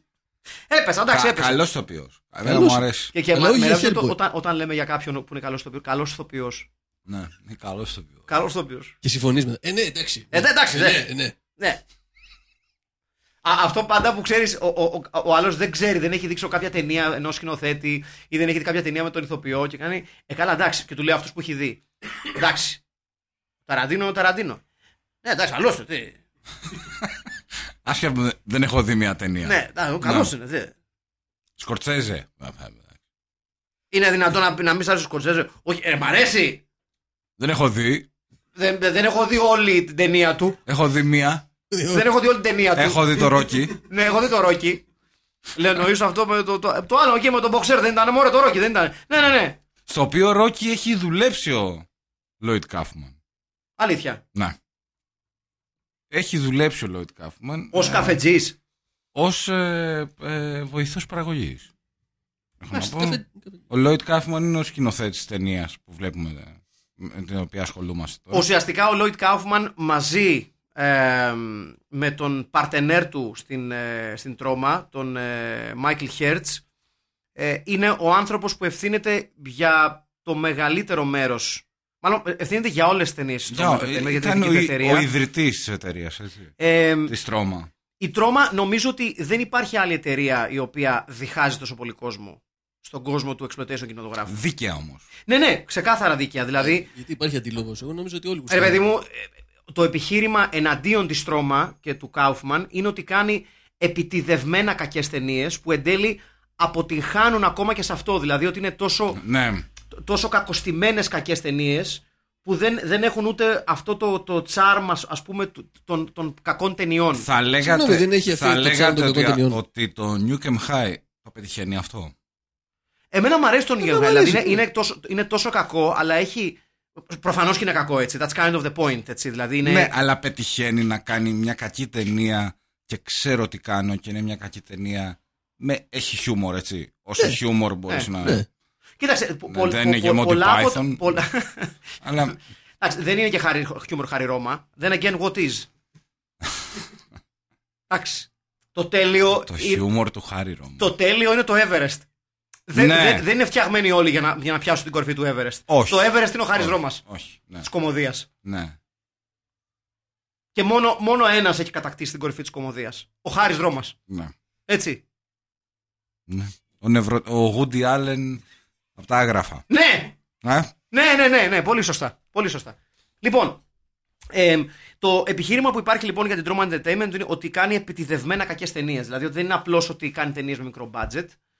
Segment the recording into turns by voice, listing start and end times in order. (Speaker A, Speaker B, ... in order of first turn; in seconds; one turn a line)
Speaker A: 0.7-1.6
Speaker B: 1.1-3.1
Speaker C: 2.4-4.2
Speaker A: 3.1-6.7
Speaker B: 7.0-8.3
Speaker A: 8.3-8.9
Speaker C: 9.0-11.3
Speaker A: 10.3-11.0
Speaker A: 13.4-22.8
Speaker A: 23.6-24.6
Speaker A: 25.2-26.2
Speaker B: 27.8-30.3
Speaker A: 29.4-30.7
Speaker B: 31.6-33.0
Speaker A: 33.9-36.6
Speaker B: 37.4-38.1
Speaker A: 38.5-40.6
Speaker B: 40.6-41.5
Speaker C: 41.7-42.0
Speaker A: 41.9-43.2
Speaker B: 42.8-43.8
Speaker A: 43.8-44.8
Speaker A: 45.5-49.6
Speaker B: 49.9-51.9
Speaker B: 52.4-53.1
Speaker A: 53.8-54.2
Speaker B: 56.1-58.2
Speaker A: 57.7-58.5
Speaker B: 59.1-61.7
Speaker B: 62.6-68.4
Speaker C: 62.8-63.4
Speaker A: 68.3-76.6
Speaker A: 77.3-85.1
Speaker B: 83.5-86.5
Speaker A: 86.6-87.1
Speaker B: 87.1-87.7
Speaker A: 88.0-94.4
Speaker B: 94.3-95.1
Speaker A: 95.2-96.9
Speaker C: 96.6-98.8
Speaker A: 98.5-109.2
Speaker B: 109.1-109.7
Speaker A: 109.9-117.3
Speaker B: 117.2-122.1
Speaker C: 117.6-119.6
Speaker A: 123.1-129.9
Speaker C: 123.8-124.6
Speaker B: 129.6-138.4
Speaker A: 137.9-138.3
Speaker A: 139.0-141.7
Speaker B: 139.5-141.2
Speaker B: 142.0-142.4
Speaker A: 142.8-145.7
Speaker A: 147.9-149.8
Speaker B: 149.4-150.9
Speaker A: 150.8-152.0
Speaker A: 152.7-157.0
Speaker B: 152.7-153.2
Speaker B: 155.7-157.7
Speaker A: 157.6-158.3
Speaker B: 158.4-158.8
Speaker A: 160.5-163.9
Speaker B: 164.1-164.3
Speaker A: 164.7-165.0
Speaker B: 166.3-168.4
Speaker B: 168.9-169.6
Speaker A: 169.7-170.1
Speaker B: 170.4-170.7
Speaker A: 170.9-173.6
Speaker A: 174.3-181.3